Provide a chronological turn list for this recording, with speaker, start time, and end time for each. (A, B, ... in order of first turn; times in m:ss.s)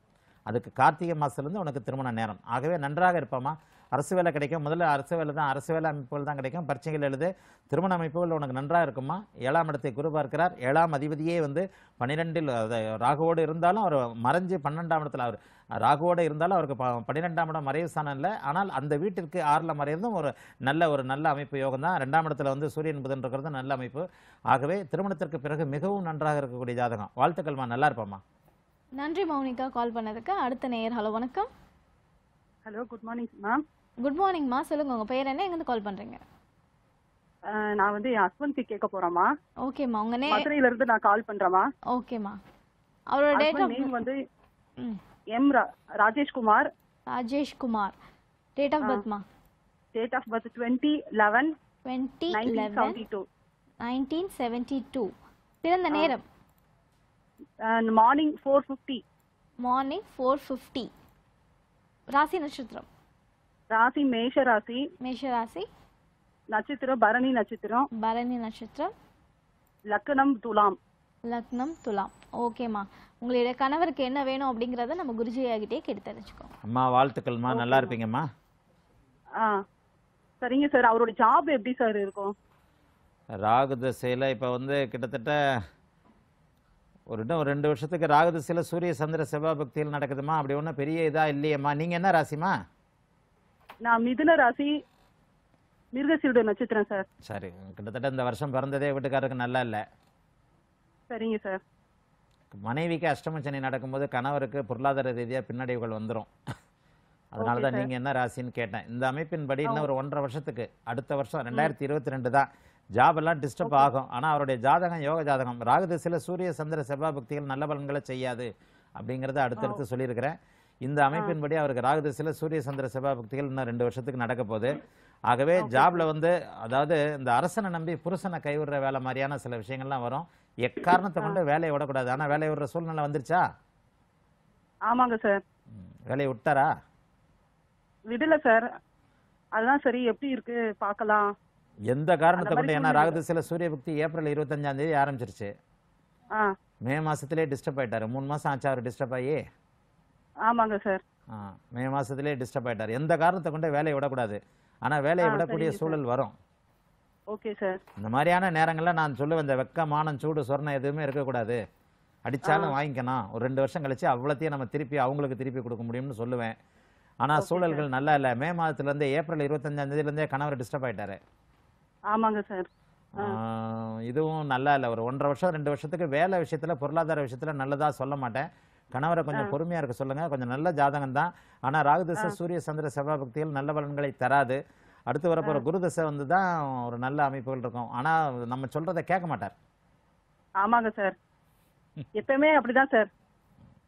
0:00.5-0:28.2 A
0:29.0-0:31.5 B
0:32.6-0:33.6 C
0:34.0-0:36.2 B
0:37.5-0:39.3 C
0:39.6-0:40.5 B
0:40.3-0:41.7 C
0:41.9-0:42.4 B
0:43.1-0:43.9 B
0:43.4-0:44.2 C
0:45.3-0:46.7 C
0:47.1-0:47.9 B
0:48.6-0:49.2 B
0:50.0-0:51.5 C
0:51.9-0:53.0 B
0:52.3-0:53.2 C
0:53.8-0:55.1 B
0:55.6-0:56.2 B
0:57.7-0:59.0 C
0:59.6-1:00.9 B
1:02.1-1:02.9 B
1:03.7-1:04.8 C
1:05.0-1:05.7 B
1:06.5-1:07.9 C
1:08.0-1:08.9 B
1:09.9-1:10.8 C
1:11.3-1:16.5 B
1:16.6-1:18.3 A
1:17.5-1:17.9 C
1:20.4-1:22.3 C
1:23.4-1:25.4 A
1:27.1-1:32.5 A
1:33.8-1:34.7 C
1:36.0-1:37.0 C
1:37.2-1:39.8 A
1:41.1-1:41.6 C
1:42.5-1:46.3 A
1:47.3-2:04.7 A
1:47.4-1:47.9 C
2:05.3-2:13.4 A
2:05.6-2:06.0 C
2:14.9-2:15.4 C
2:16.1-2:16.7 A
2:18.1-2:18.6 C
2:19.6-2:21.3 C
2:21.9-2:25.5 A
2:22.4-2:23.2 C
2:26.8-2:29.4 A
2:30.5-2:31.0 C
2:31.3-2:36.3 A
2:35.2-2:36.0 C
2:37.3-2:37.8 C
2:38.0-2:41.6 A
2:42.2-2:46.6 A
2:42.5-2:42.7 C
2:47.2-2:51.2 A
2:47.4-2:47.8 C
2:52.1-2:52.7 C
2:53.2-3:09.5 A
3:10.6-3:11.1 C
3:12.2-3:13.1 C